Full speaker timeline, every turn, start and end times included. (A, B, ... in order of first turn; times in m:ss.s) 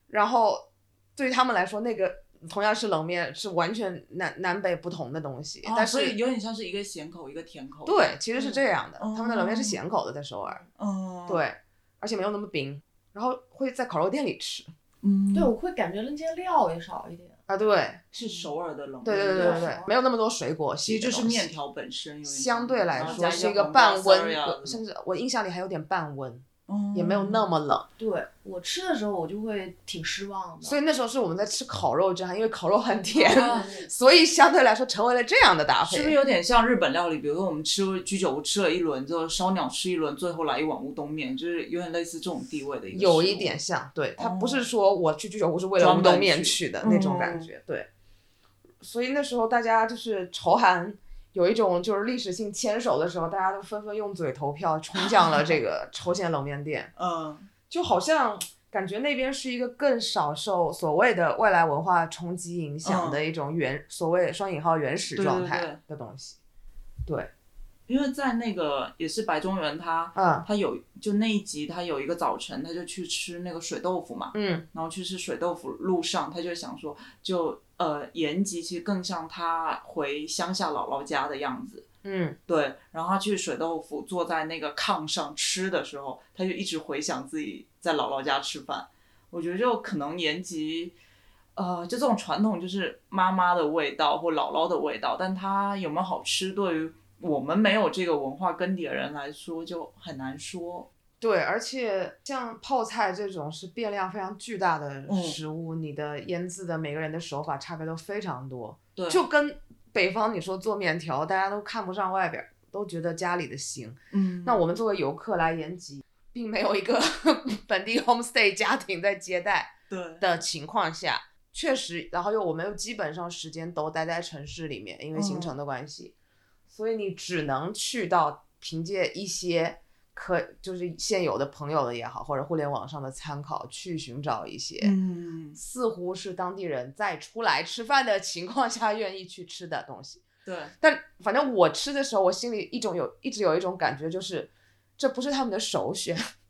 0:00.1-0:06.2 A
0:05.6-0:08.2 B
0:07.9-0:10.6 A
0:09.0-0:09.8 B
0:10.8-0:11.4 B
0:11.3-0:14.7 A
0:15.0-0:15.5 B
0:15.3-0:17.4 C
0:17.5-0:18.0 A
0:18.1-0:19.7 B
0:18.2-0:18.5 C
0:19.0-0:21.6 A
0:19.3-0:19.9 C
0:20.8-0:24.8 B
0:22.2-0:27.9 A
0:23.0-0:23.5 C
0:26.7-0:27.5 B
0:28.0-0:30.8 C
0:30.6-0:36.2 A
0:33.1-0:33.9 C
0:33.3-0:33.7 B
0:35.9-0:43.6 B
0:42.9-0:47.9 A
0:44.2-0:44.7 B
0:45.8-0:47.5 B
0:48.8-0:56.9 A
0:55.0-0:55.6 B
0:57.0-0:57.5 B
0:57.7-1:06.4 A
1:02.8-1:03.2 B
1:05.2-1:05.8 B
1:07.1-1:07.3 A
1:07.9-1:21.9 B
1:10.2-1:10.5 A
1:14.3-1:14.6 A
1:22.0-1:22.4 A
1:22.5-1:30.9 B
1:31.6-1:40.9 B
1:41.2-2:06.1 A
1:45.1-1:45.4 B
1:49.0-1:49.2 B
1:54.1-1:54.6 B
1:59.9-2:00.2 B
2:05.1-2:05.6 B
2:06.7-2:15.0 A
2:14.8-2:15.6 B
2:15.6-2:20.3 A
2:20.4-2:20.8 B
2:20.8-2:26.2 A